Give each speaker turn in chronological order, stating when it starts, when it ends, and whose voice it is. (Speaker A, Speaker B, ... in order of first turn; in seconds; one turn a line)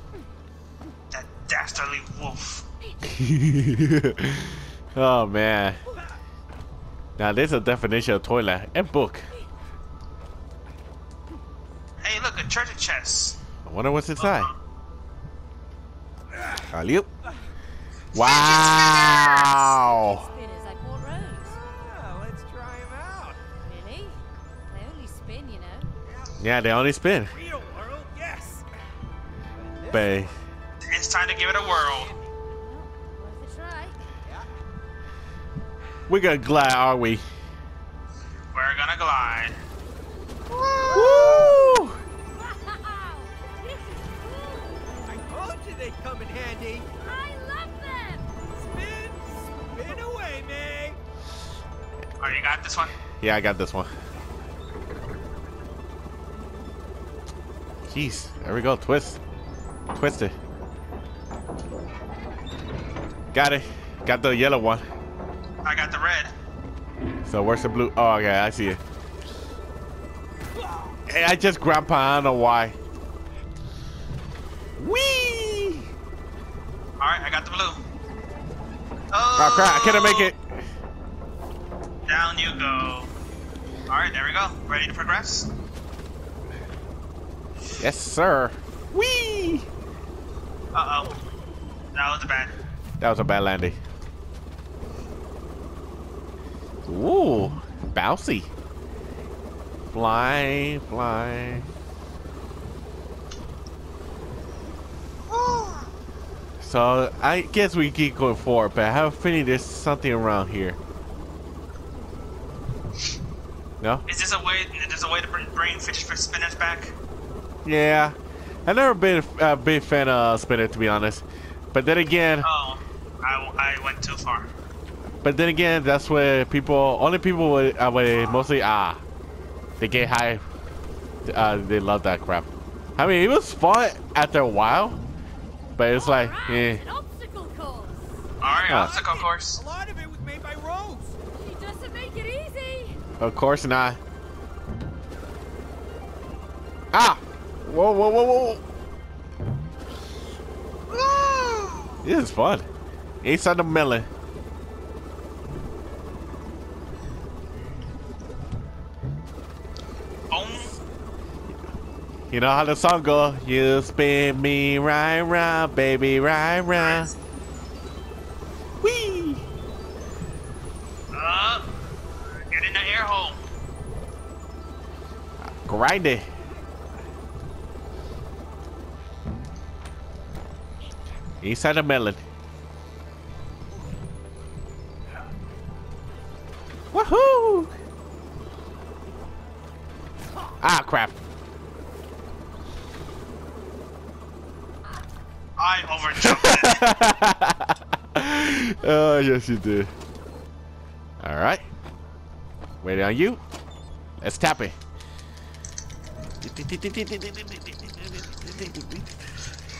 Speaker A: 1.1-2.6
Speaker B: 3.0-5.8
Speaker B: 7.2-9.3
Speaker A: 12.0-13.4
Speaker B: 13.6-14.5
Speaker A: 14.2-14.5
Speaker C: 16.4-16.6
Speaker B: 16.7-17.1
Speaker A: 18.1-19.5
Speaker B: 18.1-20.2
Speaker D: 19.7-21.5
Speaker C: 21.4-23.4
Speaker D: 23.6-25.9
Speaker C: 26.1-26.4
Speaker B: 26.4-27.3
Speaker C: 27.3-28.7
Speaker C: 29.6-30.4
Speaker B: 29.9-30.3
Speaker A: 30.9-32.1
Speaker C: 31.7-32.3
Speaker D: 32.5-34.0
Speaker C: 34.2-34.5
Speaker B: 36.1-37.2
Speaker A: 38.5-39.5
Speaker A: 40.5-41.4
Speaker C: 40.8-41.7
Speaker B: 40.9-42.0
Speaker D: 40.9-41.6
Speaker D: 42.3-44.8
Speaker C: 45.1-46.9
Speaker D: 47.0-48.3
Speaker C: 48.6-51.0
Speaker A: 52.2-52.9
Speaker B: 53.2-53.9
Speaker B: 57.8-59.2
Speaker B: 59.9-60.4
Speaker B: 63.3-64.8
Speaker A: 65.6-66.3
Speaker B: 67.2-68.8
Speaker B: 71.1-72.8
Speaker B: 74.8-75.9
Speaker A: 77.0-77.8
Speaker A: 79.1-80.3
Speaker B: 79.4-80.5
Speaker A: 82.1-83.1
Speaker A: 83.9-85.5
Speaker B: 87.8-89.7
Speaker A: 90.7-91.2
Speaker A: 91.9-92.5
Speaker B: 93.0-93.8
Speaker B: 96.8-98.5
Speaker B: 99.9-101.7
Speaker A: 105.3-105.9
Speaker B: 106.6-110.8
Speaker A: 114.1-116.9
Speaker B: 117.6-122.5
Speaker A: 122.4-124.5
Speaker B: 125.2-129.0
Speaker B: 129.8-130.4
Speaker B: 131.2-135.0
Speaker B: 135.8-136.8
Speaker D: 135.8-138.2
Speaker A: 138.4-139.6
Speaker C: 138.4-141.2
Speaker B: 138.6-138.9
Speaker D: 141.3-143.0
Speaker B: 143.2-144.0
Speaker B: 146.9-148.6
Speaker A: 150.9-152.0
Speaker B: 152.0-152.7
Speaker B: 153.2-154.1
Speaker A: 160.3-160.8
Speaker B: 162.3-167.1
Speaker A: 166.7-167.1
Speaker B: 168.8-169.4
Speaker A: 171.1-171.7
Speaker A: 172.5-173.4
Speaker B: 175.4-176.3
Speaker B: 181.4-182.2
Speaker B: 186.9-187.7
Speaker B: 190.6-191.2
Speaker A: 195.6-197.0
Speaker B: 196.1-199.9
Speaker B: 201.2-201.6
Speaker B: 202.8-203.4
Speaker B: 204.2-204.8
Speaker B: 206.4-209.2